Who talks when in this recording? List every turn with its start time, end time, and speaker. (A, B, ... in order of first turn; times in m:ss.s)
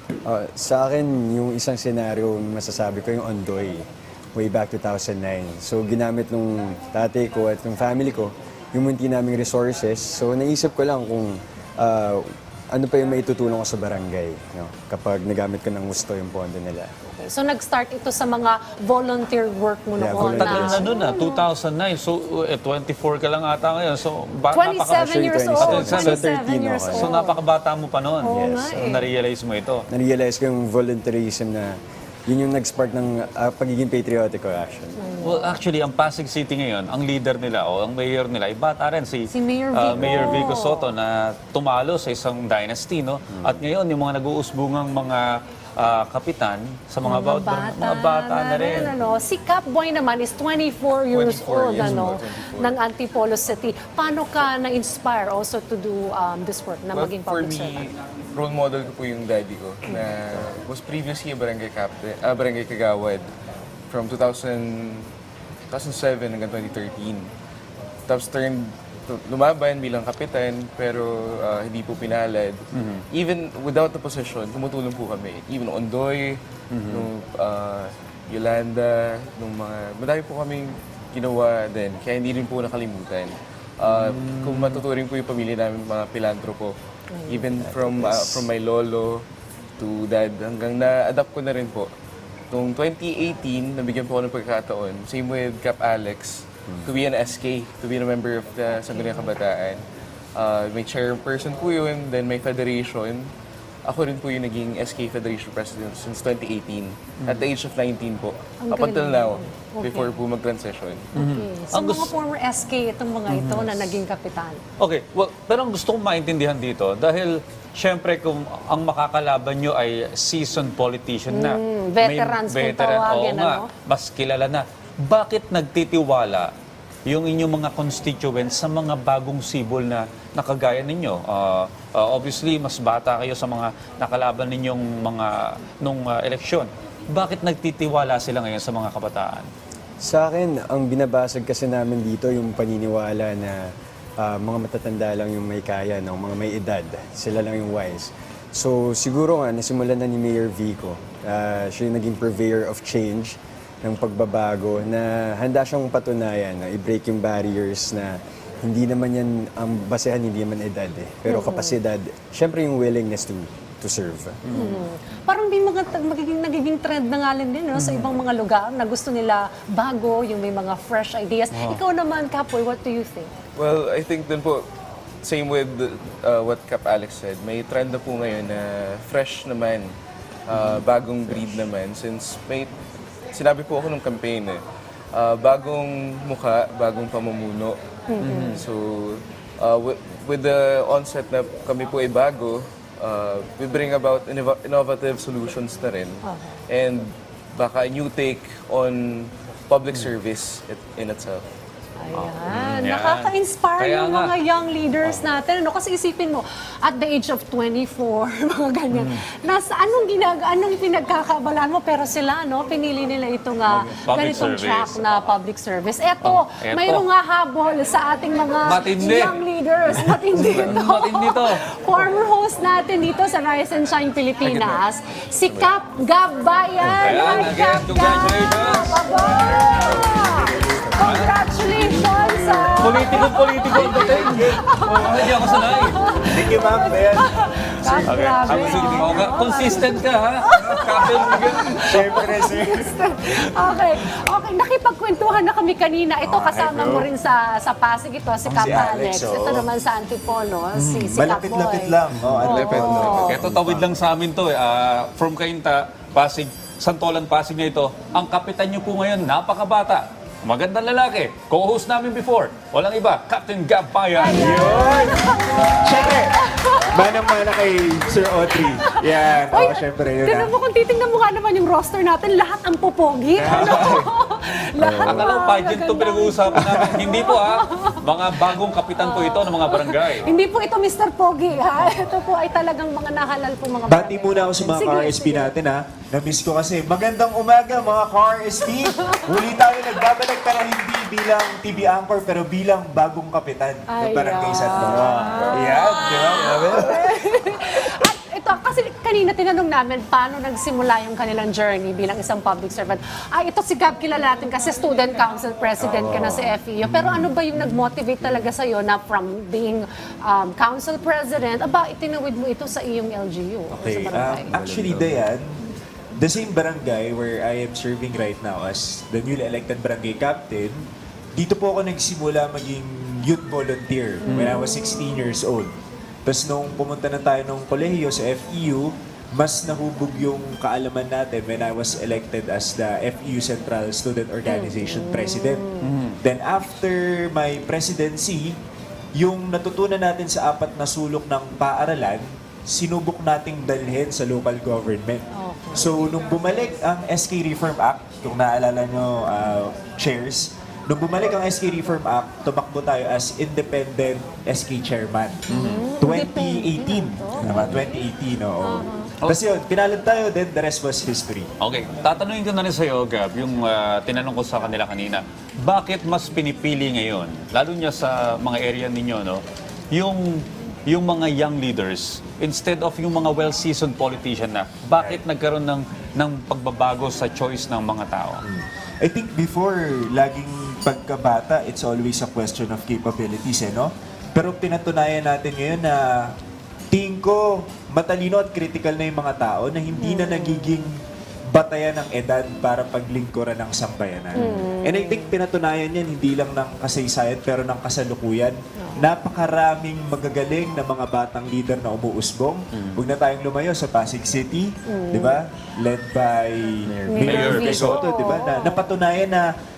0:00.2-0:16.9 A
0:17.0-0:21.4 B
0:20.0-0:20.9 A
0:20.2-0:26.3 C
0:24.5-0:27.4 B
0:25.0-0:27.2 A
0:26.9-0:29.8 C
0:28.2-0:29.0 B
0:28.3-0:29.1 A
0:29.9-0:31.8 A
0:32.3-0:35.0 A
0:35.0-0:35.6 B
0:35.2-0:45.2 C
0:39.3-0:40.9 B
0:40.0-0:40.5 A
0:45.8-0:48.9 C
0:47.0-0:57.9 B
0:51.1-0:52.8 D
0:51.8-0:52.1 C
0:56.9-1:03.3 D
1:03.9-1:05.1 D
1:05.7-1:07.3 D
1:08.1-1:29.3 D
1:12.7-1:13.0 C
1:16.7-1:17.1 C
1:23.8-1:24.8 C
1:27.1-1:27.5 B
1:27.6-1:28.5 A
1:29.8-1:31.9 D
1:32.5-1:39.8 D
1:40.3-1:43.3 D
1:43.8-1:51.1 D
1:47.2-1:47.5 C
1:48.6-1:50.1 B
1:51.1-1:52.1 C
1:51.2-1:54.6 B
1:53.3-1:54.0 C
1:54.8-2:06.5 C
2:01.3-2:03.7 B
2:07.0-2:19.5 C
2:20.0-2:44.4 A
2:41.2-2:41.8 B
2:44.4-2:44.8 C
2:44.5-2:53.3 B
2:47.7-2:48.2 C
2:51.5-2:51.8 C
2:53.6-2:54.7 D
2:55.2-2:59.9 D
3:00.5-3:02.7 D
3:00.5-3:00.8 C
3:03.3-3:07.8 D
3:08.1-3:08.6 B
3:08.2-3:08.6 C
3:08.4-3:21.5 D
3:16.2-3:16.6 B
3:22.0-4:13.4 B
3:22.4-3:24.4 C
3:28.9-3:29.2 C
3:33.7-3:35.1 C
3:36.2-3:37.0 C
3:38.6-3:39.4 C
3:40.0-3:42.1 C
3:44.4-3:44.8 D
3:46.8-3:47.2 A
3:47.0-3:49.0 C
3:51.0-3:51.3 C
3:52.8-3:56.0 C
3:53.8-3:54.3 E
3:56.2-3:59.3 E
3:58.0-4:02.0 C
4:01.0-4:03.0 E
4:06.2-4:07.1 E
4:08.4-4:09.7 E
4:10.7-4:13.8 E
4:12.4-4:13.5 D
4:12.4-4:24.8 C
4:13.6-4:13.9 A
4:24.2-4:27.4 B
4:24.3-4:26.4 E
4:26.9-4:30.5 E
4:28.5-4:38.0 B
4:33.3-4:34.1 E
4:33.5-4:34.0 C
4:34.8-4:35.2 A
4:35.0-4:40.3 C
4:36.6-4:37.0 E
4:39.0-4:45.5 B
4:43.9-4:56.9 E
4:48.9-4:49.4 B
4:53.9-5:14.6 B
5:06.8-5:07.3 E
5:13.7-5:15.6 E
5:14.5-5:15.3 D
5:16.2-5:20.8 E
5:21.4-5:25.7 E
5:24.2-5:25.0 B
5:26.2-5:35.6 E
5:34.5-5:35.9 B
5:35.8-5:36.2 C
5:36.2-5:38.5 E
5:39.2-5:55.5 E
5:45.3-5:45.9 B
5:55.5-5:58.0 B
5:55.5-5:55.9 C
5:56.0-6:01.5 E
5:57.4-5:57.8 C
5:58.6-5:59.1 B
6:01.6-6:18.4 C
6:18.4-6:26.3 E
6:26.9-6:30.9 E
6:30.0-6:30.9 B
6:31.5-6:49.5 E
6:34.3-6:35.4 B
6:38.8-6:39.1 B
6:42.7-6:43.0 C
6:44.9-6:45.4 B
6:47.1-6:48.8 B
6:47.1-6:48.0 C